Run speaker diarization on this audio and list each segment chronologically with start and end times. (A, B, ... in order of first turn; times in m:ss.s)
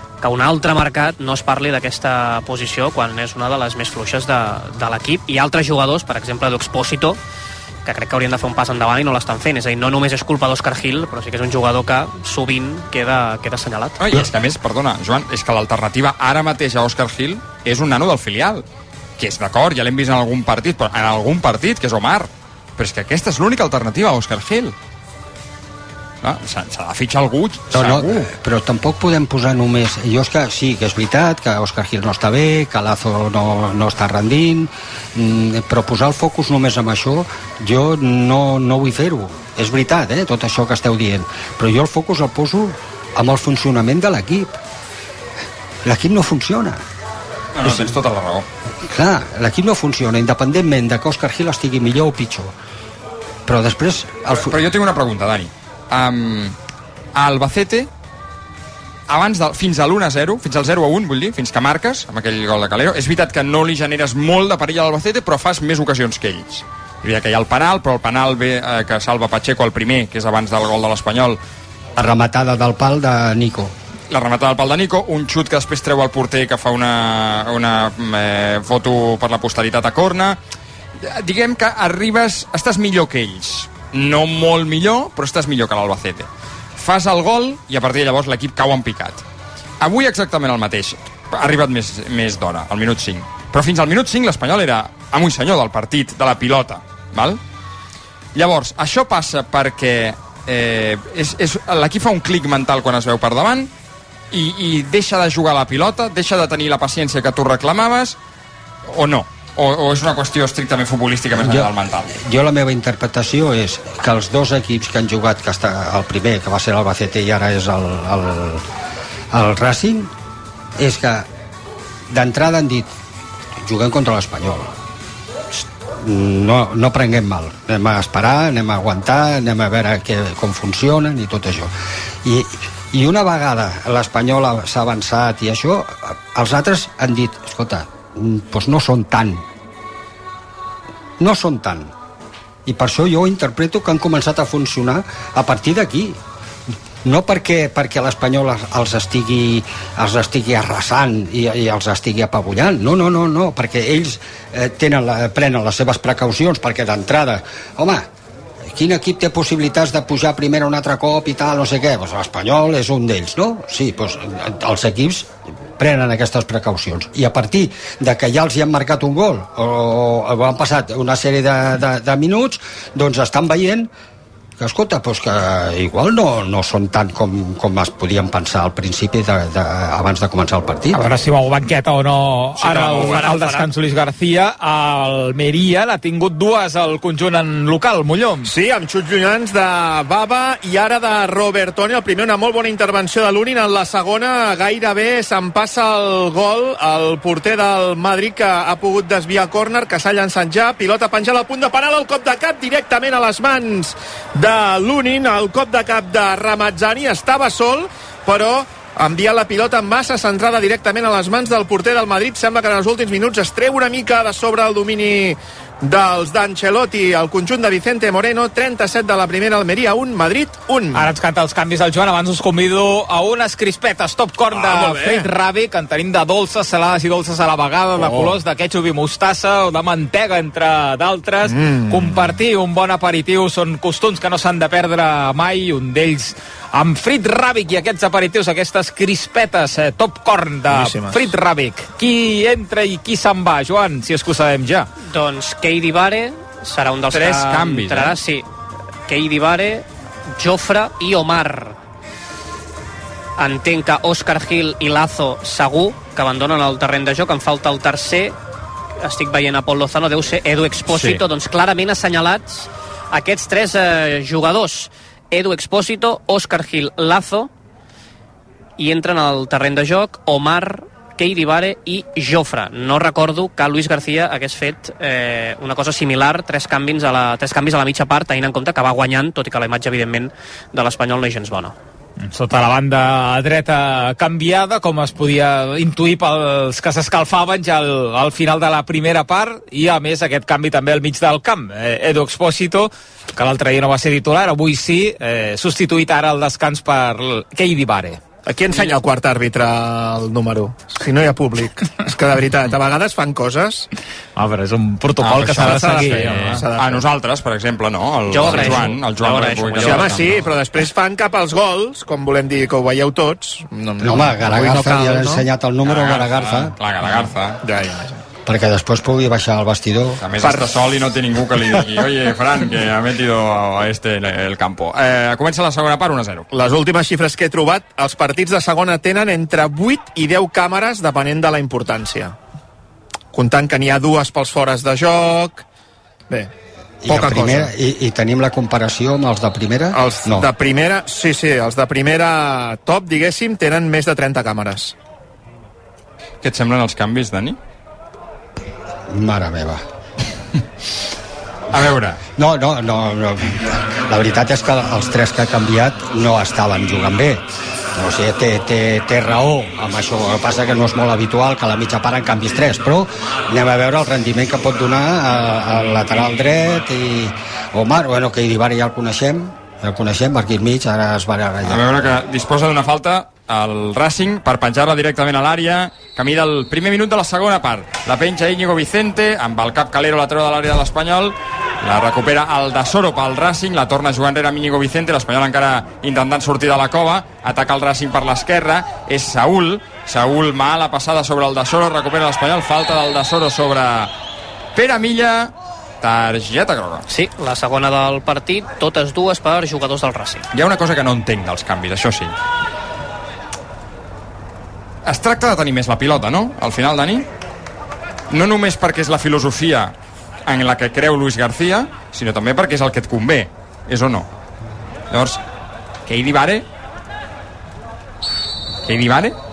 0:00.2-0:07.2 A
0:07.8-0:14.0 A
0:14.0-0:18.6 B
0:19.2-0:24.7 B
0:26.2-0:28.2 B
0:27.7-0:44.6 C
0:45.8-0:46.8 C
0:47.5-0:48.4 B
0:47.6-0:48.0 C
0:48.8-0:52.5 C
0:53.5-0:54.6 C
0:54.4-0:56.6 B
0:57.2-0:57.9 B
0:59.1-1:11.4 B
1:12.0-1:13.7 C
1:14.1-1:20.4 B
1:21.0-1:29.2 B
1:29.8-1:37.4 B
1:38.3-1:43.7 B
1:44.3-1:48.2 B
1:48.9-1:52.1 B
1:51.3-1:58.6 C
1:59.3-2:00.1 C
2:00.8-2:01.3 C
2:02.1-2:02.9 C
2:03.6-2:04.7 C
2:05.5-2:11.7 C
2:12.2-2:19.4 C
2:21.2-2:21.9 C
2:22.6-2:26.2 C
2:27.0-2:38.0 C
2:38.6-2:53.9 C
2:54.6-3:01.1 C
3:00.9-3:08.5 D
3:02.7-3:03.7 A
3:02.7-3:03.2 B
3:08.4-3:41.1 E
3:40.9-4:04.9 D
3:44.5-3:45.3 E
3:48.0-3:48.3 E
3:51.4-3:52.4 E
4:00.7-4:01.3 E
4:05.0-4:08.5 A
4:07.1-4:08.2 B
4:09.1-4:09.8 A
4:10.4-4:11.8 A
4:13.4-4:18.3 A
4:19.0-4:27.5 A
4:20.9-4:21.2 B
4:28.8-4:41.7 A
4:42.2-4:58.2 D
4:58.4-5:03.9 E
5:04.4-5:06.6 D
5:05.2-5:10.4 B
5:05.6-5:07.0 E
5:08.3-5:10.3 A
5:09.8-5:15.4 E
5:14.0-5:16.7 C
5:15.8-5:17.6 B
5:17.6-5:18.2 E
5:18.4-5:20.2 C
5:20.2-5:26.5 B
5:20.4-5:20.9 E
5:26.5-5:32.3 E
5:33.3-5:35.6 E
5:37.0-5:40.5 C
5:37.1-5:37.7 E
5:39.9-5:44.9 E
5:46.4-5:47.6 B
5:49.1-5:49.8 C
5:51.7-5:52.2 B
5:52.4-5:57.4 C
5:57.9-6:11.8 C
6:11.6-6:34.1 B
6:34.7-6:37.0 B
6:37.1-6:40.4 A
6:40.5-6:42.3 B
6:45.0-6:47.2 B
6:48.3-6:49.9 B
6:50.4-6:54.3 B
6:55.1-6:55.4 B
6:56.0-6:56.6 B
6:58.8-6:59.3 B